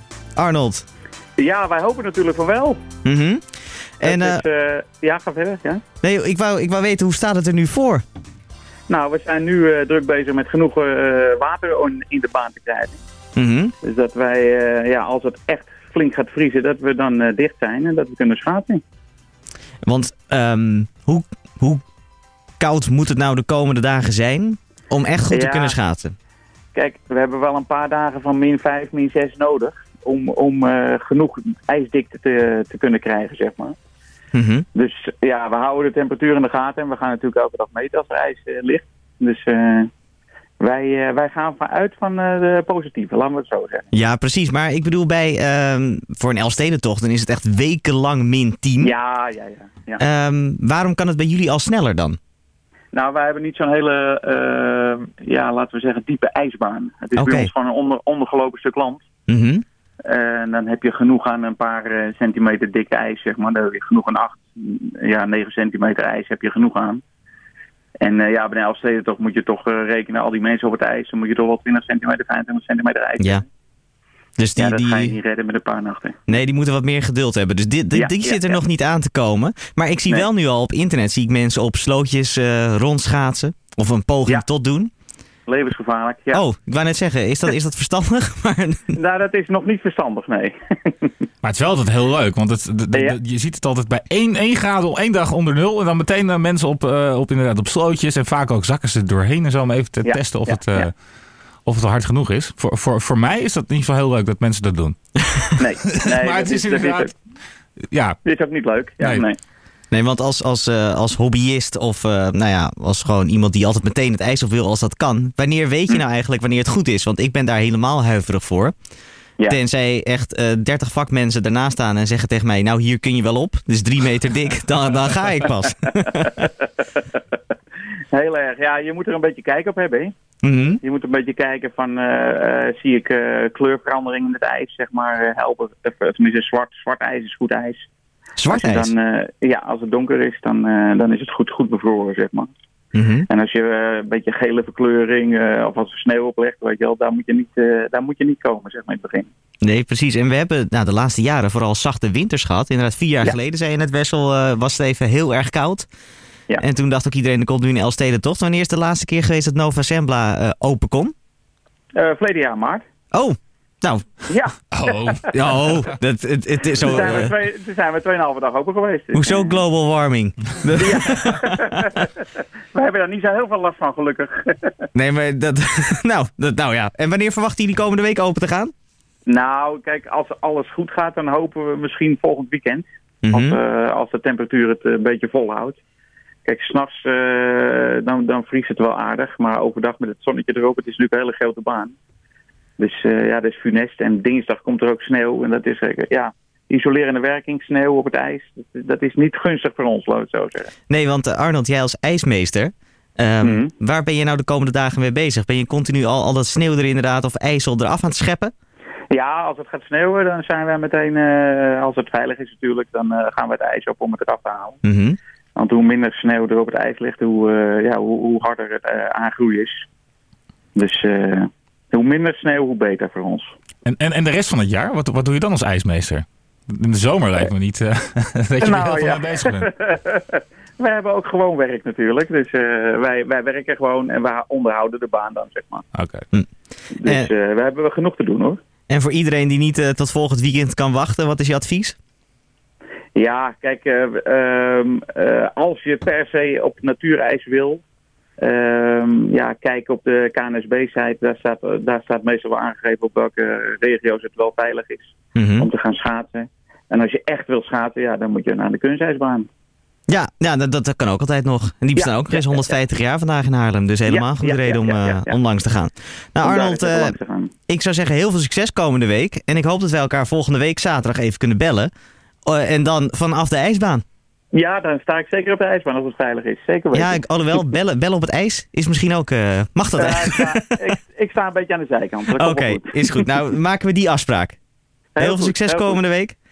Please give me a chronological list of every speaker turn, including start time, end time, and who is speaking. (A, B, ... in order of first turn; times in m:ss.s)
0:00.4-0:00.8 A
0:01.4-0:02.8 B
0:03.0-0:03.4 A
0:04.0-0:04.4 A
0:04.0-0:05.8 B
0:06.0-0:08.0 A
0:08.9-0:13.0 B
0:13.4-0:13.7 A
0:13.8-0:18.8 B
0:19.9-0:21.8 A
0:22.6-0:26.2 A
0:25.3-0:25.8 B
0:26.8-0:33.8 B
0:34.3-0:34.7 A
0:34.8-0:39.9 B
0:40.6-0:43.9 B
0:43.9-0:48.9 A
0:48.8-0:50.0 B
0:50.0-0:52.2 A
0:52.9-0:59.0 B
0:57.2-0:57.5 A
0:59.3-0:59.6 A
1:00.0-1:07.0 B
1:08.0-1:13.5 B
1:14.4-1:15.2 A
1:14.6-1:16.3 B
1:16.3-1:24.9 A
1:17.9-1:18.6 B
1:25.5-1:26.4 B
1:26.3-1:28.9 A
1:28.9-1:31.1 B
1:31.4-1:41.0 C
1:32.9-1:33.2 B
1:40.0-1:40.9 B
1:41.6-1:47.1 C
1:45.6-1:47.1 B
1:47.9-1:48.2 C
1:48.2-1:49.4 B
1:49.9-1:58.7 A
1:59.5-2:06.5 A
2:06.2-2:07.2 B
2:08.1-2:10.1 B
2:10.4-2:10.8 A
2:10.8-2:17.9 B
2:18.4-2:18.9 A
2:18.5-2:22.5 B
2:22.9-2:23.3 A
2:23.3-2:29.3 B
2:29.6-2:35.9 A
2:36.6-2:41.1 A
2:42.0-2:42.8 B
2:43.1-2:44.1 A
2:44.3-2:45.6 B
2:44.7-2:45.2 C
2:45.3-2:47.3 A
2:46.8-2:49.6 B
2:49.1-2:51.6 A
2:50.8-2:52.2 B
2:52.7-2:54.9 B
2:55.0-2:58.7 A
2:59.3-3:05.8 B
3:03.2-3:03.6 A
3:06.4-3:12.0 B
3:12.8-3:20.7 B
3:20.9-3:28.5 A
3:23.4-3:23.7 B
3:29.1-3:34.8 B
3:34.8-3:35.2 A
3:35.6-3:39.9 B
3:40.8-3:43.5 B
3:43.8-3:49.7 C
3:48.6-3:55.8 B
3:55.9-3:56.3 C
3:57.0-3:58.6 B
3:58.9-4:02.0 A
4:03.2-4:07.8 B
4:08.4-4:19.5 B
4:15.4-4:15.7 A
4:20.1-4:27.2 A
4:22.0-4:22.7 B
4:24.1-4:25.4 B
4:26.4-4:27.5 B
4:27.7-4:31.9 A
4:32.5-4:34.0 A
4:34.5-4:37.6 B
4:36.9-4:40.6 A
4:40.0-4:43.3 B
4:42.4-4:44.6 A
4:45.2-4:46.0 B
4:45.2-4:46.4 A